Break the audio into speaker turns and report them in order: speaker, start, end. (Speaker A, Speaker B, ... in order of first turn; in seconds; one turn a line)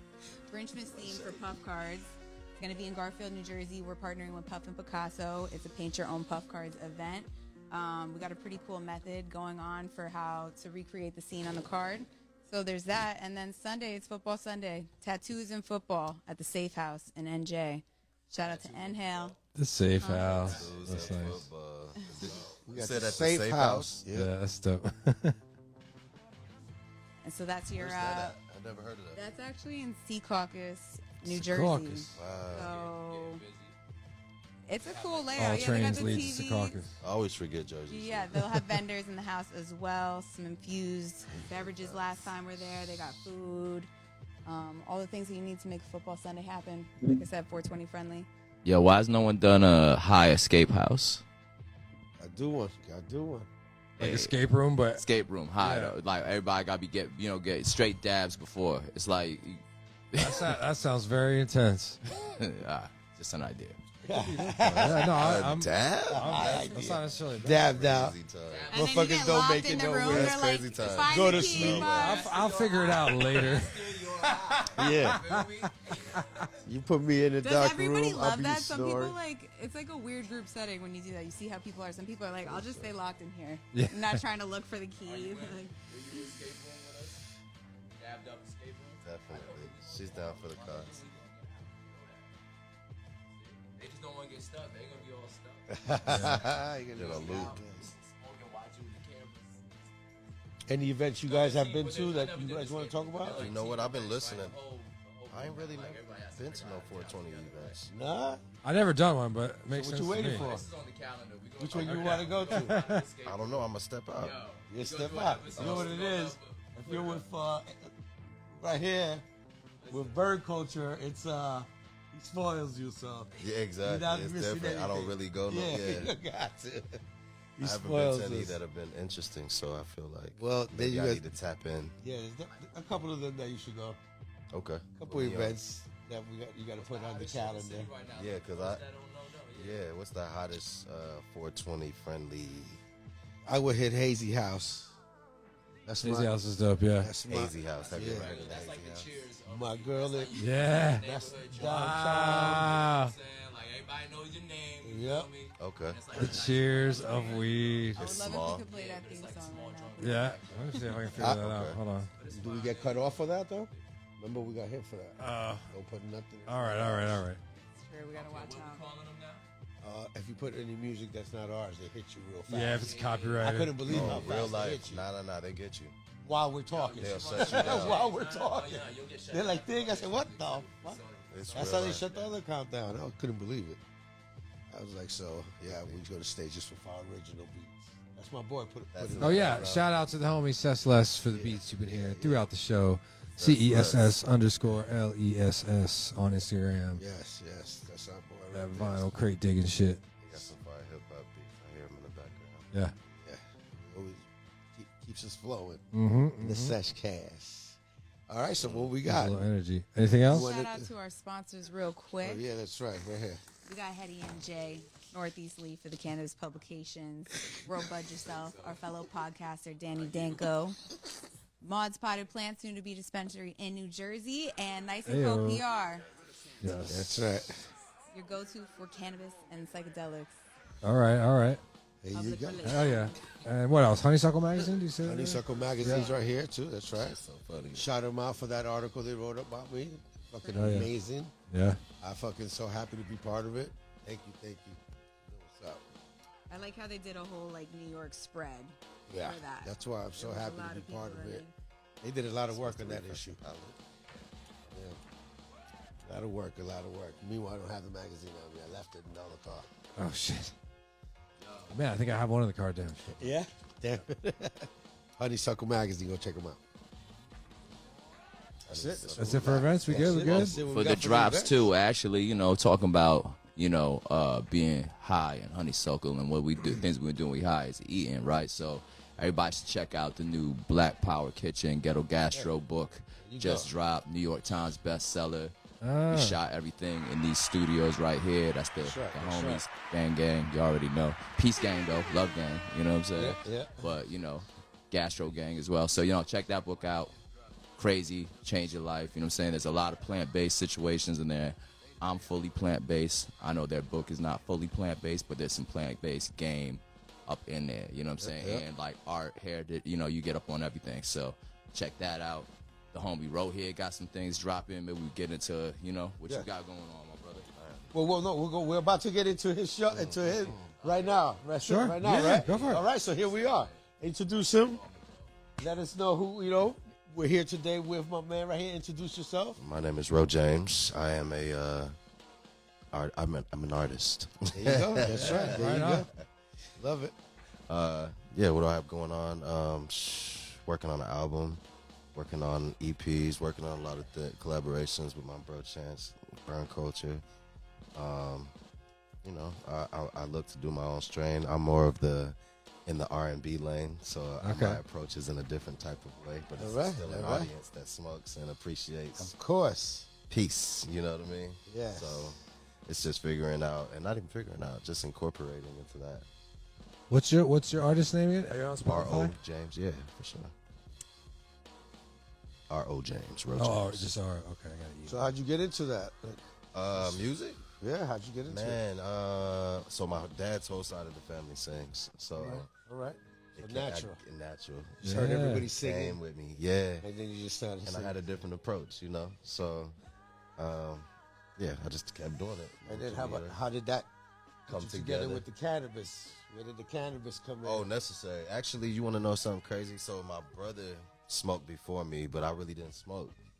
Speaker A: 0.5-19.4
Speaker B: 18.3-19.4
Speaker C: 19.6-21.5
Speaker A: 20.0-20.5
Speaker B: 20.0-21.4
Speaker D: 20.4-24.1
Speaker B: 22.1-22.6
Speaker E: 22.7-24.3
Speaker C: 24.1-25.4
Speaker A: 27.2-28.4
Speaker D: 27.8-29.3
Speaker A: 29.1-33.4
Speaker C: 31.2-32.1
Speaker D: 32.1-32.7
Speaker B: 32.2-33.8
Speaker A: 34.7-36.8
Speaker B: 34.8-36.3
Speaker C: 35.4-36.9
Speaker D: 37.0-38.5
Speaker A: 37.9-43.9
Speaker D: 41.4-42.1
Speaker A: 44.5-48.3
Speaker B: 48.6-51.2
Speaker E: 52.2-53.5
Speaker B: 54.0-54.3
Speaker C: 54.0-55.0
Speaker B: 54.9-60.5
Speaker C: 55.6-55.9
Speaker C: 60.1-62.0
Speaker B: 62.1-63.8
Speaker E: 64.0-65.4
Speaker C: 64.1-67.8
Speaker D: 65.0-67.0
Speaker E: 66.1-68.2
Speaker D: 67.6-68.7
Speaker B: 68.5-69.5
Speaker E: 68.7-70.4
Speaker A: 68.7-73.0
Speaker D: 70.0-72.2
Speaker B: 70.7-76.6
Speaker E: 71.1-72.0
Speaker C: 72.0-73.9
Speaker E: 74.6-75.2
Speaker C: 74.9-75.5
Speaker E: 76.7-79.2
Speaker A: 77.4-86.2
Speaker E: 82.4-82.9
Speaker C: 83.7-84.2
Speaker B: 85.0-87.2
Speaker B: 88.0-92.3
Speaker D: 89.0-90.9
Speaker B: 93.3-96.4
Speaker E: 95.7-97.9
Speaker C: 96.1-96.4
Speaker D: 97.0-97.6
Speaker B: 97.0-99.9
Speaker E: 100.7-103.6
Speaker B: 101.2-107.8
Speaker D: 103.2-104.6
Speaker D: 105.3-107.9
Speaker E: 107.9-108.4
Speaker C: 108.6-110.5
Speaker E: 109.7-110.7
Speaker B: 110.1-117.3
Speaker E: 111.6-112.8
Speaker C: 111.8-113.1
Speaker D: 113.2-114.4
Speaker E: 114.7-117.9
Speaker D: 115.6-115.9
Speaker E: 118.6-119.2
Speaker B: 119.8-120.3
Speaker E: 119.9-127.0
Speaker D: 123.4-126.1
Speaker E: 127.6-128.6
Speaker D: 127.6-132.0
Speaker E: 130.4-131.3
Speaker E: 132.0-134.0
Speaker D: 134.5-135.6
Speaker E: 134.9-137.9
Speaker B: 136.8-139.8
Speaker D: 138.1-138.8
Speaker D: 139.6-142.8
Speaker E: 143.4-144.9
Speaker E: 145.9-146.4
Speaker C: 146.0-147.1
Speaker E: 147.0-148.7
Speaker D: 147.2-149.1
Speaker B: 147.6-161.2
Speaker E: 149.5-152.8
Speaker C: 150.4-153.1
Speaker E: 154.8-155.3
Speaker D: 155.6-156.4
Speaker C: 156.2-158.0
Speaker D: 157.9-158.7
Speaker A: 158.0-160.9
Speaker C: 160.0-162.1
Speaker E: 161.2-161.5
Speaker D: 161.2-161.8
Speaker B: 162.2-163.8
Speaker E: 162.3-167.2
Speaker C: 165.2-165.7
Speaker C: 166.5-167.4
Speaker A: 167.8-168.8
Speaker B: 168.1-169.4
Speaker E: 169.8-172.9
Speaker C: 172.5-174.2
Speaker B: 172.8-174.6
Speaker E: 173.4-175.1
Speaker D: 173.8-175.9
Speaker E: 176.2-181.0
Speaker B: 176.7-182.4
Speaker D: 177.0-178.1
Speaker D: 181.3-182.0
Speaker E: 181.5-183.8
Speaker E: 184.7-189.8
Speaker D: 185.6-186.0
Speaker D: 188.9-190.1
Speaker C: 189.2-197.0
Speaker E: 191.8-192.5
Speaker D: 193.4-194.2
Speaker E: 197.0-199.1
Speaker C: 198.5-200.0
Speaker D: 200.3-202.7
Speaker E: 203.2-205.8
Speaker C: 205.9-206.8
Speaker E: 206.4-207.8
Speaker E: 208.3-209.4
Speaker D: 208.6-208.9
Speaker C: 209.1-210.5
Speaker E: 210.3-210.9
Speaker A: 210.3-212.4
Speaker E: 212.2-213.4
Speaker A: 213.7-220.8
Speaker B: 218.2-218.8
Speaker B: 220.1-220.4
Speaker A: 221.6-226.1
Speaker C: 225.1-225.6
Speaker C: 226.6-227.3
Speaker E: 226.9-227.6
Speaker A: 228.1-230.4
Speaker C: 230.8-231.6
Speaker E: 232.0-232.7
Speaker A: 232.1-233.2
Speaker C: 232.6-236.1
Speaker E: 235.0-237.2
Speaker D: 236.9-237.9
Speaker E: 237.7-241.3
Speaker A: 240.4-240.8
Speaker C: 240.6-240.9
Speaker C: 241.5-241.8
Speaker E: 242.0-245.8
Speaker A: 246.5-251.5
Speaker E: 249.1-251.4
Speaker E: 252.0-253.4
Speaker D: 252.5-253.8
Speaker E: 254.7-255.0
Speaker E: 256.0-259.7
Speaker C: 260.0-260.5
Speaker B: 261.4-261.8
Speaker C: 261.7-263.2
Speaker E: 263.1-266.6
Speaker D: 268.7-270.7
Speaker E: 268.7-271.7
Speaker C: 269.2-270.6
Speaker B: 270.7-285.5
Speaker E: 283.2-283.7
Speaker C: 285.8-286.4
Speaker B: 286.1-297.2
Speaker E: 288.8-289.6
Speaker E: 293.2-293.9
Speaker B: 297.8-317.5
Speaker E: 308.2-308.6
Speaker D: 317.6-317.9
Speaker E: 317.9-324.8
Speaker D: 319.9-320.8
Speaker B: 320.8-321.2
Speaker C: 321.6-322.8
Speaker B: 322.4-323.9
Speaker B: 324.5-325.3
Speaker E: 325.6-329.6
Speaker D: 329.6-331.9
Speaker D: 332.9-335.6
Speaker E: 334.6-336.1
Speaker C: 335.1-336.1
Speaker E: 336.8-337.1
Speaker D: 337.7-341.6
Speaker D: 342.1-347.2
Speaker D: 348.0-348.6
Speaker D: 349.2-359.3
Speaker C: 354.4-354.8
Speaker E: 356.6-357.5
Speaker E: 359.2-360.1
Speaker D: 360.3-366.3
Speaker E: 361.7-362.4
Speaker C: 367.1-369.4
Speaker D: 368.9-370.5
Speaker D: 372.7-374.1
Speaker C: 373.6-375.3
Speaker E: 375.1-376.4
Speaker D: 376.7-377.6
Speaker E: 376.9-377.2
Speaker E: 377.8-378.8
Speaker D: 378.5-382.7
Speaker E: 382.4-384.2
Speaker D: 383.6-387.1
Speaker E: 385.0-386.2
Speaker C: 385.0-385.7
Speaker E: 387.0-388.2
Speaker D: 387.8-390.0
Speaker D: 390.6-393.6
Speaker E: 392.9-394.1
Speaker E: 394.7-397.9
Speaker D: 394.7-395.4
Speaker D: 397.6-403.4